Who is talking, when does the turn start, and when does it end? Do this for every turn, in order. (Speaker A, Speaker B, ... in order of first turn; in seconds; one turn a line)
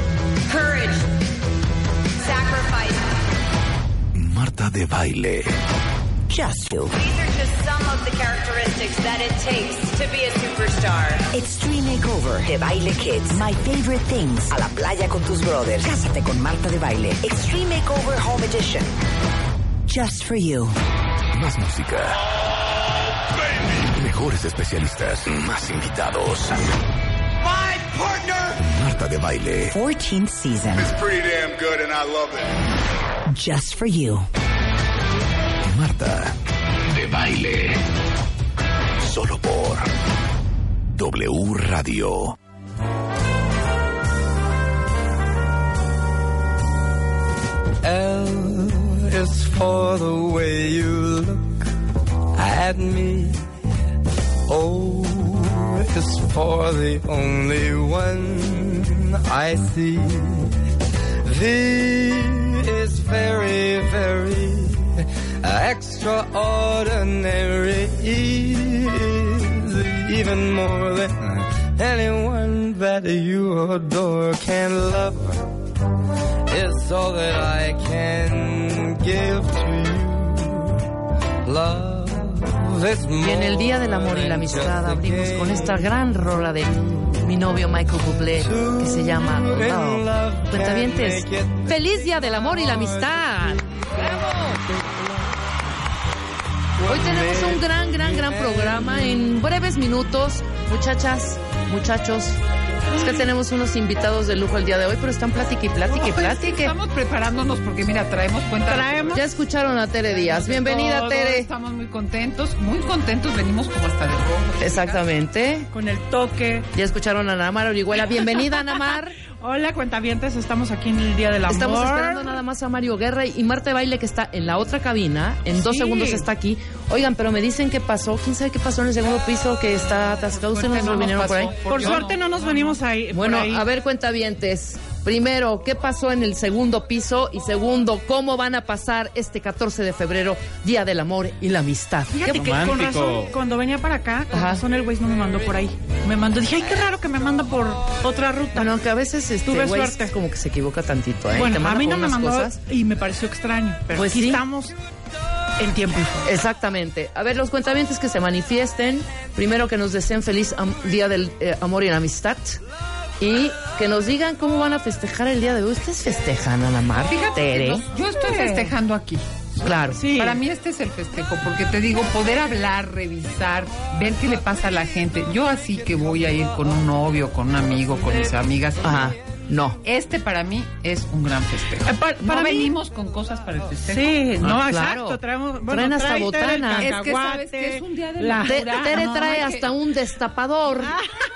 Speaker A: 0.5-1.1
Speaker A: 2.2-3.0
Speaker B: 4.1-5.5
Speaker C: 6.3-7.1
Speaker A: 7.0-11.2
Speaker C: 11.2-18.9
Speaker C: 19.9-20.7
Speaker B: 21.3-22.1
Speaker B: 23.9-26.7
Speaker D: 27.4-28.6
Speaker B: 28.6-29.8
Speaker C: 29.7-30.9
Speaker D: 30.7-32.5
Speaker C: 33.3-34.3
Speaker B: 35.6-36.3
Speaker B: 36.9-37.8
Speaker B: 39.0-39.9
Speaker B: 41.0-42.3
Speaker E: 47.8-51.6
Speaker E: 52.3-53.4
Speaker E: 54.5-60.5
Speaker E: 61.2-75.5
Speaker E: 76.5-80.8
Speaker E: 81.4-86.0
Speaker F: 83.2-94.5
Speaker E: 88.4-95.3
Speaker E: 96.8-99.4
Speaker F: 96.9-102.4
Speaker F: 102.9-106.7
Speaker G: 105.9-109.2
Speaker H: 108.7-109.2
Speaker F: 109.1-111.5
Speaker G: 110.2-115.0
Speaker F: 114.6-115.7
Speaker H: 115.7-116.7
Speaker F: 116.7-119.2
Speaker H: 119.3-122.4
Speaker F: 121.5-131.9
Speaker H: 125.5-126.3
Speaker G: 130.4-132.8
Speaker H: 131.7-133.6
Speaker F: 133.1-142.6
Speaker H: 142.1-148.8
Speaker E: 142.4-143.3
Speaker F: 144.3-144.6
Speaker F: 148.5-152.6
Speaker H: 149.4-150.1
Speaker H: 151.3-154.8
Speaker F: 153.9-154.4
Speaker H: 155.6-156.3
Speaker F: 156.2-162.6
Speaker F: 163.2-167.8
Speaker G: 167.1-169.2
Speaker H: 168.2-168.7
Speaker F: 169.6-170.0
Speaker H: 169.9-170.4
Speaker G: 170.1-179.1
Speaker F: 178.8-179.8
Speaker G: 179.8-184.3
Speaker H: 181.8-182.7
Speaker H: 183.8-188.6
Speaker F: 184.4-186.9
Speaker G: 186.8-189.7
Speaker F: 188.4-191.0
Speaker H: 190.9-191.1